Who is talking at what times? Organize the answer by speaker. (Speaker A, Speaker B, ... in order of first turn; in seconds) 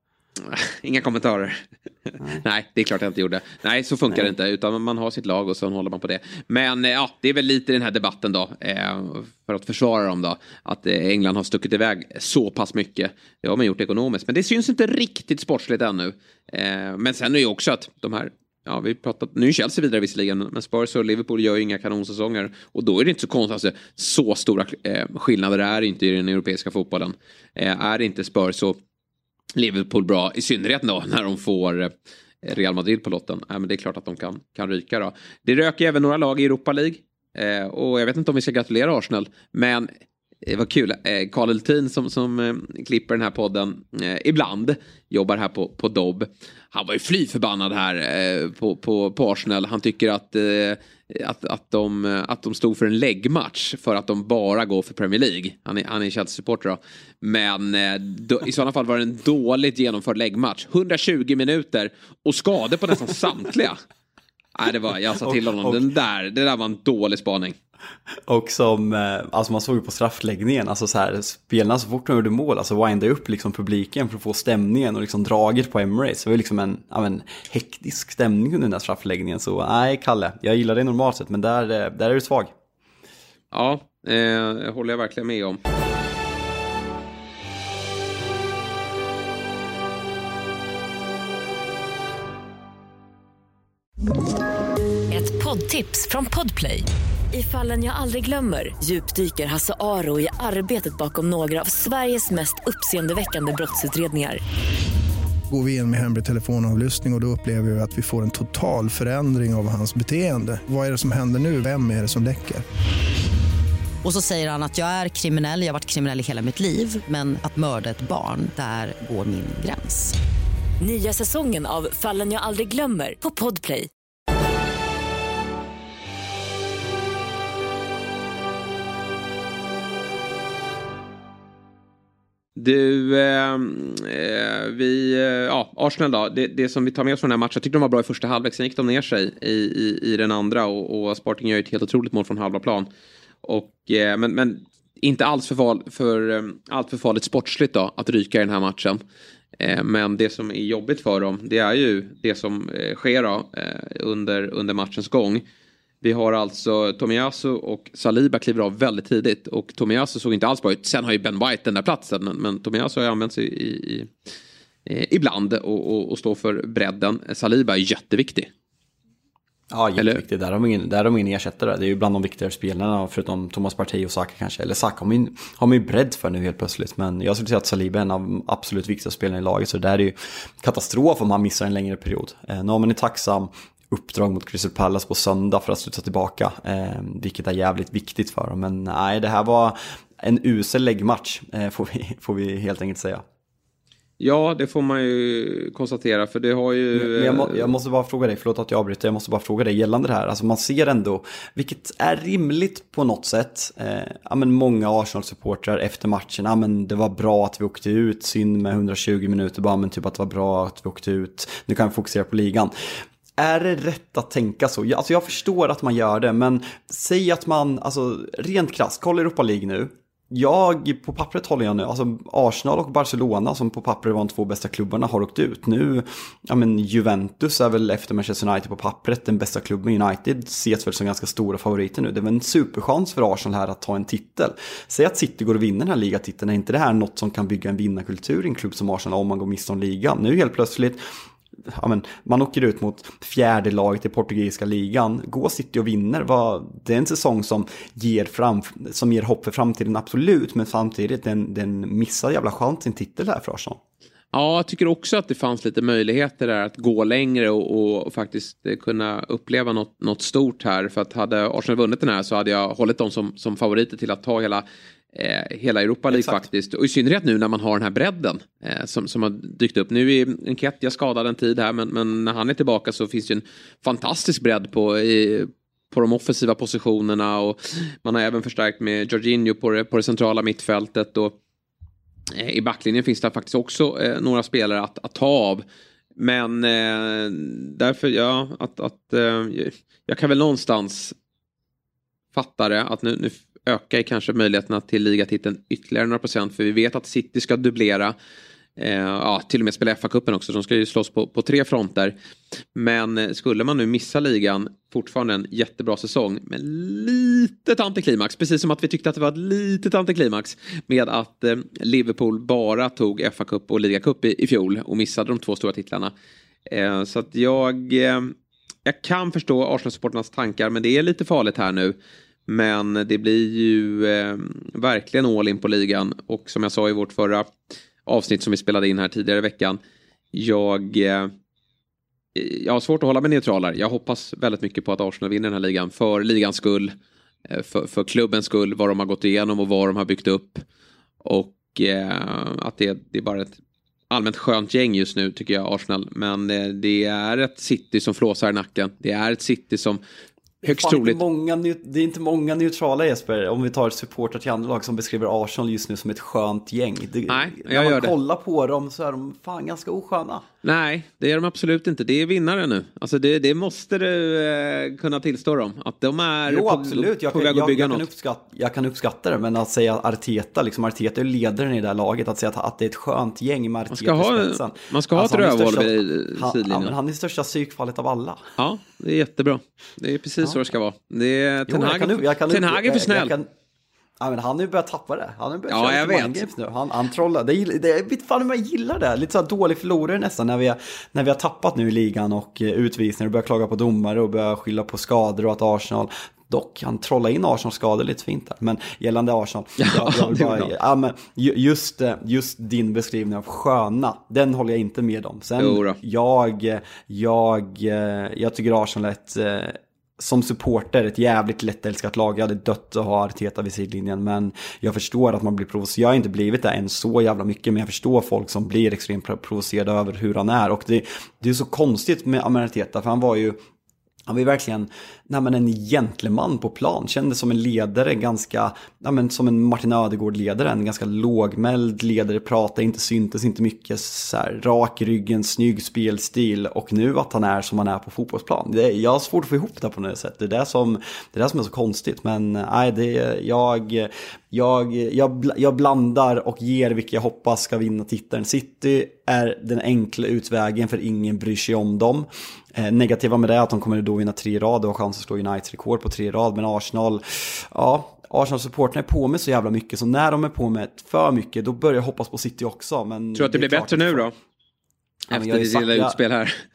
Speaker A: 0.4-28.8, 29.5-31.9, 32.4-39.9, 40.4-63.8, 64.5-67.5, 83.5-85.6, 132.6-142.9, 143.4-149.0, 149.6-155.4, 156.0-164.1, 164.8-168.5, 170.0-170.2, 194.2-197.7, 254.3-281.4, 282.3-285.6, 286.2-291.1, 292.3-298.1, 298.8-302.1, 302.7-316.1, 316.7-318.3, 318.8-321.9, 322.5-327.5, 328.1-329.8, 330.3-331.3, 332.3-336.9, 337.5-340.6, 341.2-343.6, 344.1-350.0, 350.6-351.2, 357.3-358.1, 360.6-368.1, 373.9-376.9, 378.6-383.3, 385.7-386.4, 399.8-400.7, 405.6-406.0, 463.3-464.3, 465.3-466.6
Speaker B: 65.2-65.8, 68.3-82.5, 169.7-193.2, 196.9-212.7, 213.4-241.0, 241.7-253.8, 266.1-266.5, 350.6-360.4, 366.5-378.4, 381.7-383.5, 384.2-423.6, 424.3-464.3, 465.3-466.2
Speaker C: 95.1-104.4, 120.8-123.9
Speaker D: 105.5-112.6
Speaker E: 114.0-120.1